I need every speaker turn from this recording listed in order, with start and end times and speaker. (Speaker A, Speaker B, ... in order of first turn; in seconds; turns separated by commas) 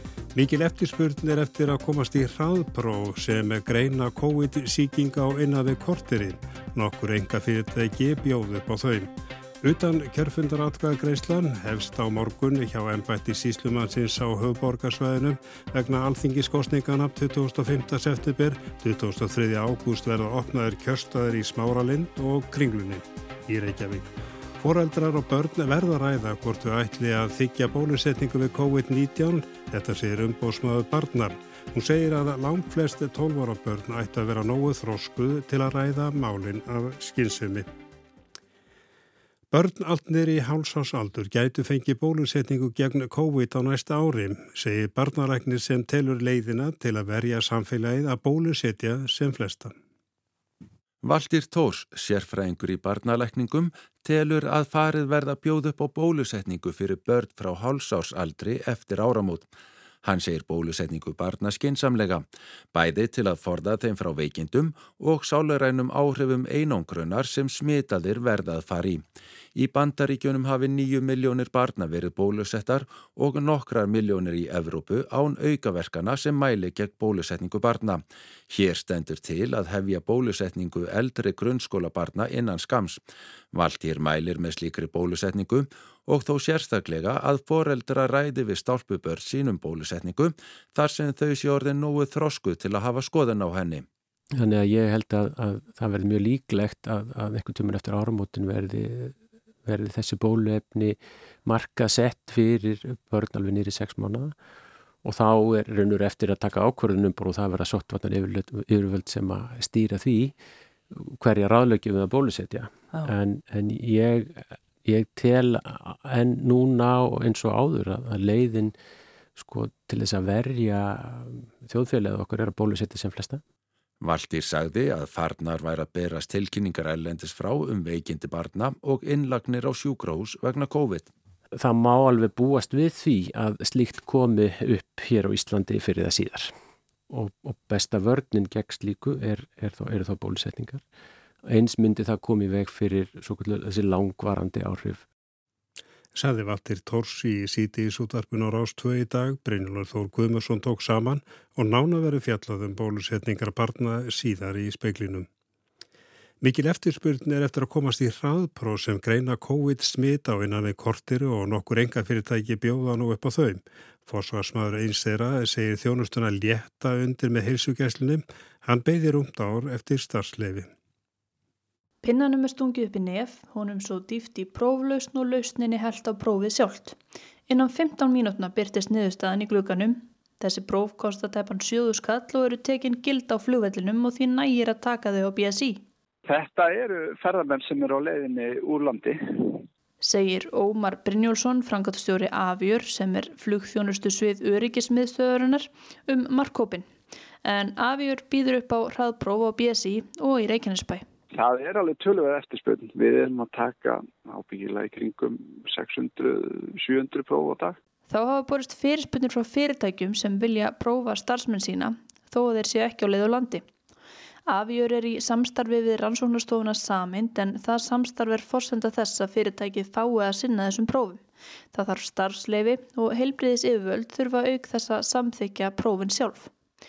Speaker A: 0.3-37.7, Speaker A: 39.5-49.7, Speaker B: 51.0-59.5, Speaker B: 60.0-69.0, Speaker B: 69.5-83.0, Speaker B: 83.5-93.9, Speaker C: 94.3-104.3, Speaker C: 105.0-110.4, Speaker C: 110.9-118.7, Speaker C: 119.3-123.4, Speaker B: 124.0-131.1, Speaker C: 131.5-136.5, Speaker C: 137.1-140.8, Speaker C: 141.4-145.1, Speaker A: 146.1-155.3, Speaker A: 156.4-170.7, Speaker D: 172.0-177.0, Speaker D: 177.5-185.8, Speaker E: 186.2-189.6, Speaker D: 190.0-196.9, Speaker D: 197.4-201.0, Speaker E: 201.3-207.8, Speaker D: 208.1-213.7, Speaker D: 214.4-226.5